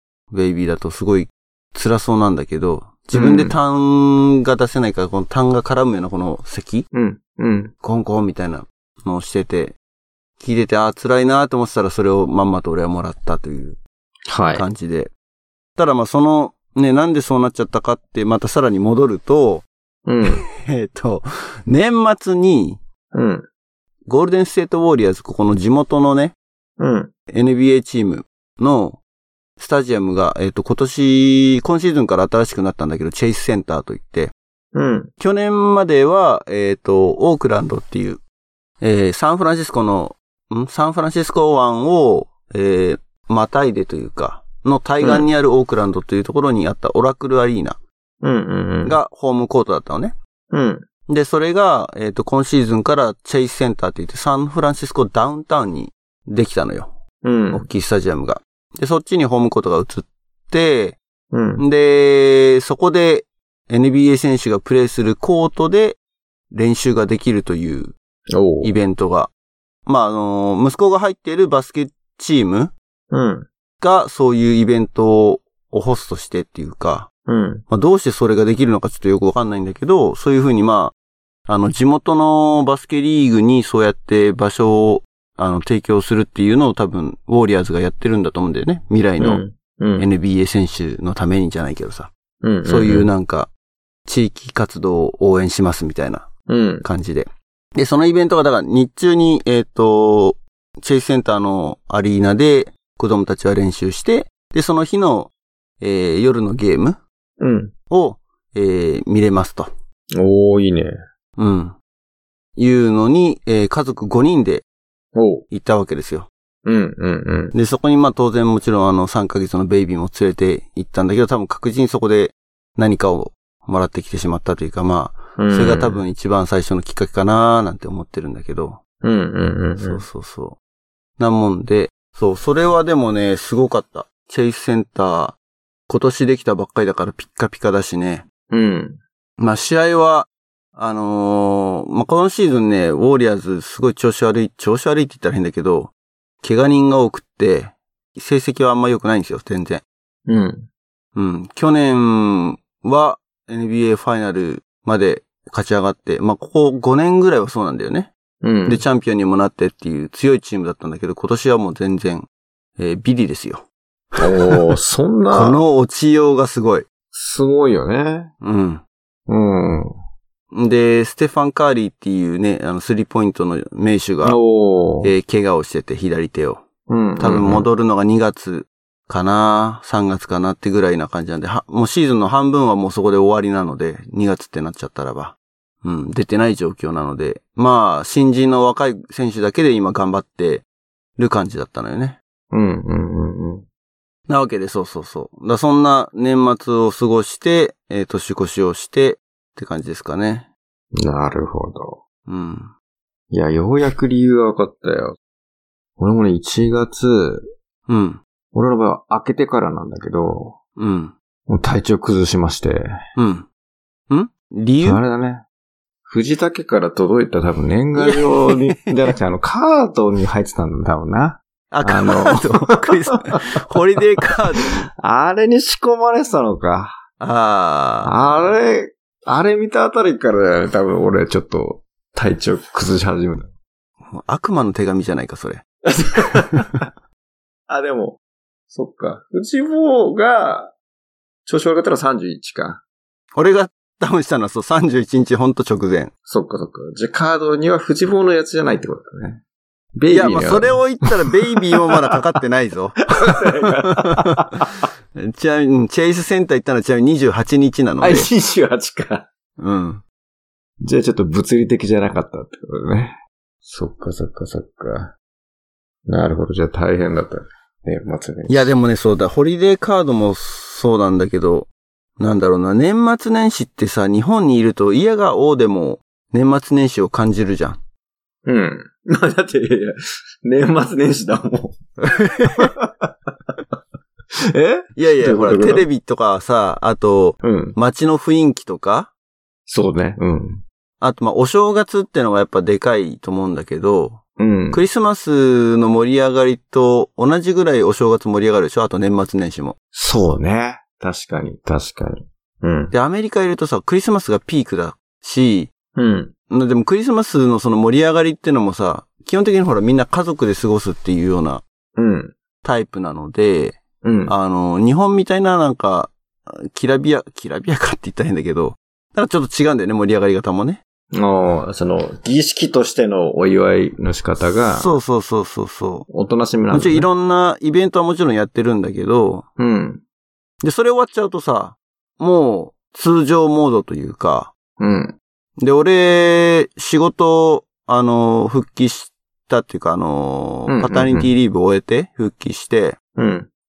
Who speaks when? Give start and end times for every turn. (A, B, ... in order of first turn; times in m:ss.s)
0:00.3-0:06.9 A
0:03.1-0:03.6 B
0:06.9-0:07.7 B
0:07.8-0:09.8 A
0:10.4-0:13.8 A
0:14.3-0:14.6 B
0:14.5-0:15.1 A
0:15.8-0:19.7 A
0:20.1-0:20.4 B
0:20.2-0:22.8 A
0:23.1-0:23.4 B
0:24.1-0:26.4 A
0:26.8-0:27.1 B
0:27.3-0:29.0 A
0:29.6-0:34.3 A
0:34.7-0:35.1 B
0:35.2-0:38.2 A
0:38.8-0:47.8 A
0:45.0-0:45.3 B
0:48.2-0:49.0 B
0:48.8-0:50.2 A
0:50.5-0:50.8 B
0:51.1-0:57.0 A
0:57.2-0:57.7 B
0:57.5-1:01.0 A
1:01.3-1:01.6 B
1:01.6-1:06.0 A
1:06.5-1:07.9 A
1:08.3-1:08.7 B
1:08.6-1:09.3 A
1:09.9-1:12.7 A
1:13.1-1:13.5 B
1:13.8-1:17.1 A
1:17.3-1:17.6 B
1:17.7-1:21.0 A
1:21.5-1:29.4 A
1:29.2-1:30.1 B
1:30.0-1:32.1 A
1:32.4-1:33.1 B
1:32.6-1:33.5 A
1:34.1-1:36.3 A
1:36.5-1:36.9 B
1:36.8-1:47.0 A
1:47.4-1:47.7 B
1:47.9-1:49.7 A
1:50.2-1:51.0 B
1:51.4-1:51.8 A
1:52.6-1:54.6 A
1:55.2-1:55.4 B
1:55.5-1:56.3 A
1:56.6-1:57.5 B
1:57.5-2:08.8 A
2:05.4-2:06.0 B
2:09.0-2:10.0 B
2:09.8-2:10.6 A
2:11.2-2:15.4 A
2:15.9-2:18.2 A
2:18.5-2:19.0 B
2:19.4-2:29.8 A
2:30.3-2:30.7 B
2:31.2-2:38.1 A
2:38.4-2:38.8 B
2:38.7-2:42.3 A
2:42.8-2:44.7 A
2:44.2-2:45.6 B
2:45.3-2:46.9 A
2:47.1-2:48.3 B
2:48.4-2:48.8 A
2:49.3-2:49.9 B
2:50.5-2:54.4 A
2:54.2-2:55.1 B
2:55.0-2:56.6 A
2:56.9-2:57.7 B
2:57.2-3:10.6 A
3:11.2-3:12.2 A
3:12.5-3:13.6 B
3:14.3-3:20.5 A
3:21.0-3:22.0 B
3:22.3-3:22.7 A
3:23.3-3:25.2 B
3:26.0-3:27.5 B
3:27.9-3:28.2 A
3:28.5-3:30.6 B
3:30.8-3:31.1 A
3:31.5-3:32.9 B
3:33.2-3:33.5 A
3:34.1-3:35.0 A
3:34.8-3:35.4 B
3:36.1-3:43.4 B
3:38.0-3:38.9 A
3:41.7-3:44.9 A
3:44.6-3:47.0 B
3:47.2-3:48.1 A
3:48.0-3:53.5 B
3:54.1-3:55.6 A
3:55.9-3:56.9 B
3:56.2-3:56.9 A
3:57.7-3:58.2 B
3:58.7-4:00.7 B
4:01.5-4:02.8 B
4:03.3-4:06.1 A
4:06.3-4:09.4 B
4:10.0-4:11.0 B
4:10.1-4:14.6 A
4:13.2-4:14.8 B
4:15.2-4:18.3 A
4:18.0-4:19.3 B
4:19.6-4:20.0 A
4:20.8-4:25.1 B
4:26.1-4:28.7 B
4:28.5-4:37.8 A
4:38.4-4:41.8 B
4:42.0-4:42.7 A
4:42.6-4:43.6 B
4:44.5-4:45.9 B
4:45.0-4:49.1 A
4:47.4-4:47.8 B
4:49.7-4:50.6 B
4:51.0-4:59.8 A
4:54.4-4:54.8 B
4:59.9-5:02.9 B
5:02.9-5:05.7 A
5:06.0-5:06.3 B
5:06.5-5:11.6 A
5:12.0-5:12.3 B
5:12.6-5:20.8 A
5:14.0-5:14.3 B
5:21.1-5:24.9 B
5:24.7-5:26.1 A
5:26.1-5:27.1 B
5:26.7-5:29.5 A
5:29.6-5:30.0 B
5:30.6-5:34.5 A
5:34.8-5:35.2 B
5:35.6-5:43.0 A
5:40.7-5:41.3 B
5:43.2-5:43.5 B